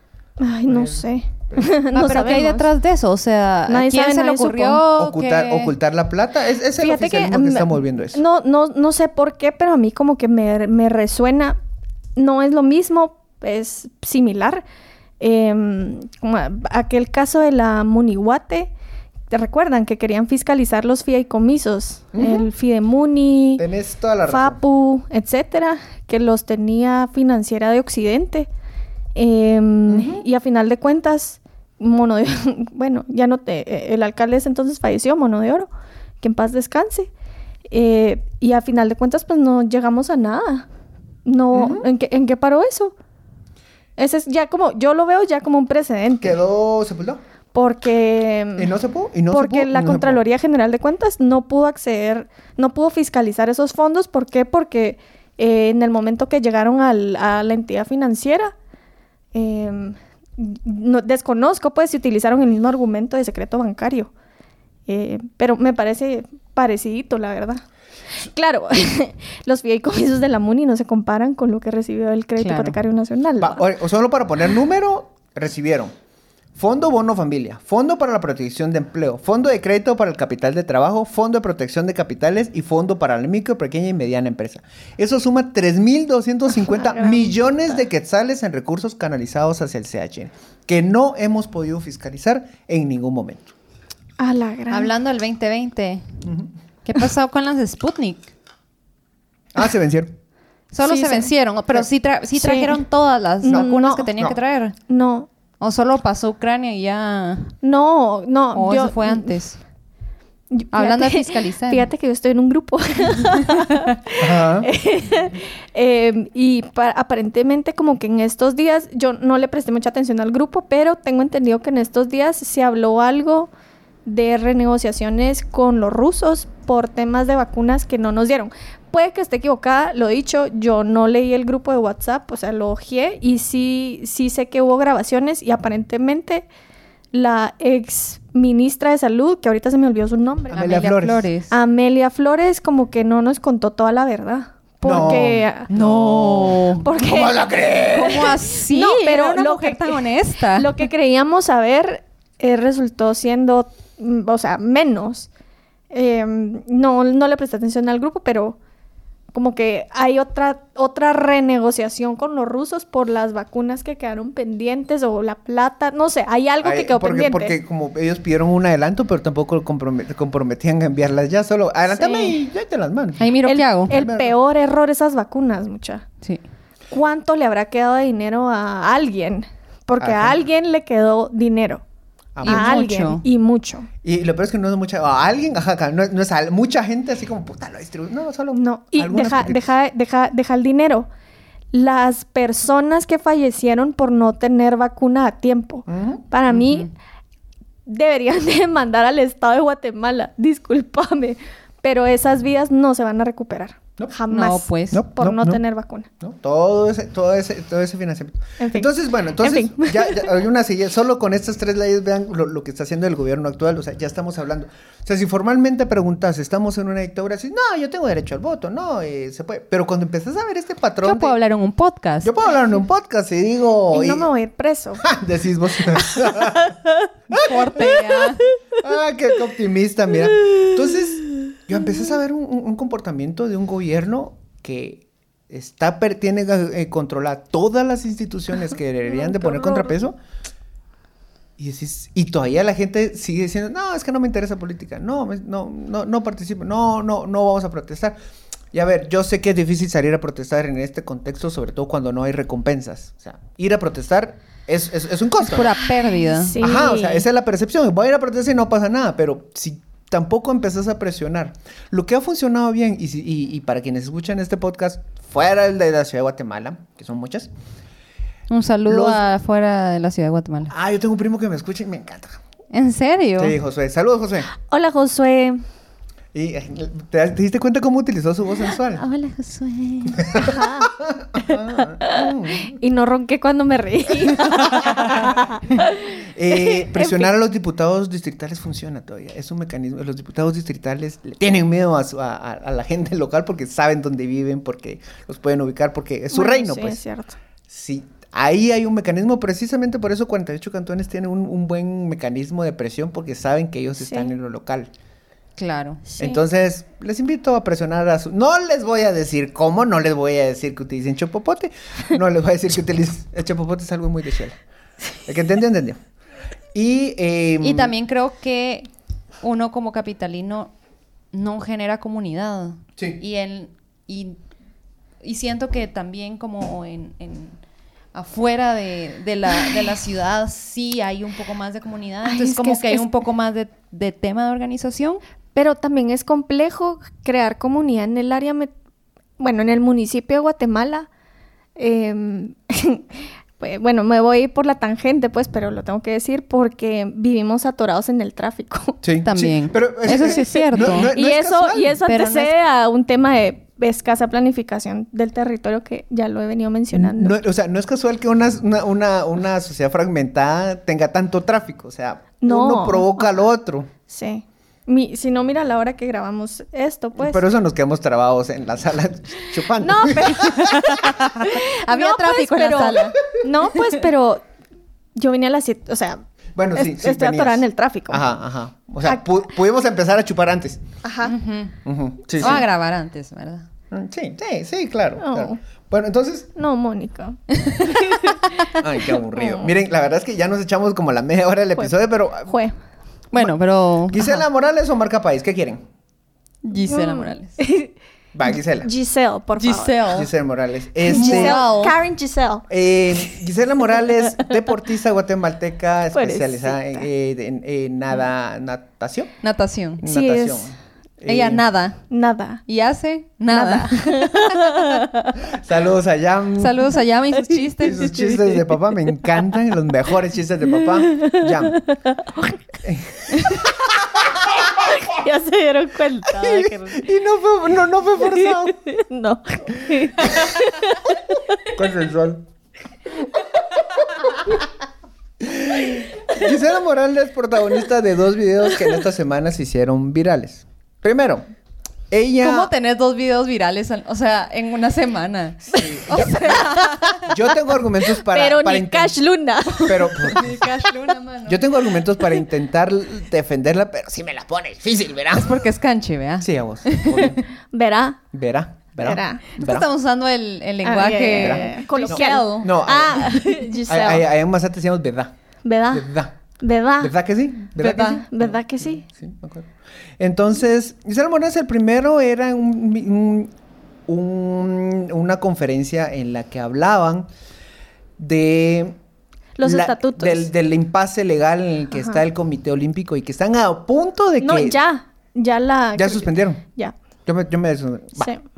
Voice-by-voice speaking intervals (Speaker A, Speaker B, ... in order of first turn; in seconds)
Speaker A: 0.4-2.7, 3.7-4.8, 6.8-11.6, 12.2-14.6, 15.2-18.7, 19.3-23.6, 24.3-28.5, 29.1-35.7, 36.2-37.1, 37.7-40.7, 41.2-42.9, 44.0-46.4, 47.5-48.7, 49.3-58.5, 59.3-64.1, 64.9-67.6, 68.2-73.7, 86.7-87.3, 94.2-94.9, 100.8-101.3, 102.4-102.8, 103.4-104.1, 104.9-105.3, 107.6-109.3, 110.5-123.5, 124.0-136.5, 137.1-140.6, 141.5-145.7, 146.8-147.4, 147.9-155.3, 155.9-158.6, 159.3-167.6, 171.9-172.4, 173.4-176.1, 176.9-181.8, 182.4-183.9, 188.6-191.1, 191.7-196.9, 197.9-206.1, 208.6-210.4, 223.9-225.0, 226.1-226.8, 239.1-240.0, 256.2-257.3, 274.5-275.6, 280.4-287.3, 296.3-297.4, 304.0-304.3, 306.1-306.4, 332.2-333.1, 335.6-338.7, 339.4-341.1, 341.8-349.0, 350.1-357.4, 362.4-363.3, 364.1-367.4, 369.7-374.4, 375.1-376.2, 376.8-378.2, 381.0-381.3, 385.2-385.6, 386.6-388.6, 389.2-389.7, 392.5-392.8, 396.9-397.9, 398.5-400.1, 401.1-402.7, 406.1-407.1, 410.0-410.7, 412.1-412.6, 413.5-415.4, 417.5-418.6, 420.9-422.6, 423.3-423.7, 424.6-427.1, 428.2-431.2, 446.1-446.8, 448.1-450.7, 457.7-458.2, 459.0-459.5, 460.8-464.2, 465.6-466.1, 466.6-467.1, 467.8-469.0, 479.6-480.5, 481.9-482.2, 484.4-486.9
Speaker B: 0.7-1.8, 5.0-8.2, 22.1-22.5, 23.6-24.6, 29.9-30.2, 41.5-41.9, 46.2-47.2, 48.6-50.2, 73.4-75.9, 76.5-93.5, 96.2-96.5, 99.5-100.1, 114.2-114.7, 140.5-141.3, 144.8-148.3, 166.6-173.2, 173.9-174.3, 180.0-180.4, 182.4-182.7, 184.0-189.6, 195.9-196.2, 204.9-205.6, 206.2-221.3, 222.2-224.3, 225.0-226.7, 227.3-228.0, 228.8-240.2, 241.6-248.2, 248.7-255.7, 256.6-267.5, 268.9-269.2, 270.7-272.4, 273.4-274.5, 276.3-279.0, 280.2-282.7, 284.9-285.4, 286.2-297.0, 297.7-304.9, 306.2-314.6, 315.3-316.0, 316.7-317.9, 349.0-352.0, 356.9-363.9, 367.2-371.2, 376.6-380.8, 381.9-382.6, 383.9-386.5, 388.7-392.6, 394.1-395.8, 398.3-398.9, 400.1-401.6, 402.7-409.3, 410.0-411.6, 415.4-416.9, 417.8-421.8, 422.8-424.5, 426.3-428.8, 429.8-430.5, 431.7-432.4, 435.4-441.5, 442.1-442.7, 445.7-449.1, 449.9-450.6, 451.5-455.6, 456.4-457.4, 458.3-459.9, 461.4-465.3, 465.9-466.3, 467.0-473.5, 474.1-477.3, 478.2-479.0, 479.6-484.8, 485.9-486.6, 487.3-488.3
Speaker C: 1.9-5.7, 72.4-72.8, 94.7-96.2, 96.8-98.3, 100.7-104.8, 105.6-107.5, 108.5-109.6, 110.7-111.9, 113.4-113.7, 140.5-141.5, 145.8-146.9, 147.9-150.8, 173.2-174.0, 182.4-183.2, 196.5-196.9, 204.3-205.0, 221.0-222.3, 227.4-228.4, 255.4-256.6, 268.5-270.7, 272.7-273.6, 279.0-280.4, 305.6-306.0, 317.6-318.9, 319.4-320.7, 321.3-324.4, 325.2-327.6, 328.1-335.2, 349.2-351.1, 352.0-352.6, 370.9-373.2, 381.2-381.8, 382.3-383.7, 387.6-388.0, 393.3-394.4, 396.6-397.6, 399.6-400.3, 401.1-402.0, 409.4-410.0, 411.3-412.0, 412.7-415.0, 416.6-418.4, 442.4-447.2, 450.3-451.6, 455.3-457.4, 459.6-462.8, 467.8-468.1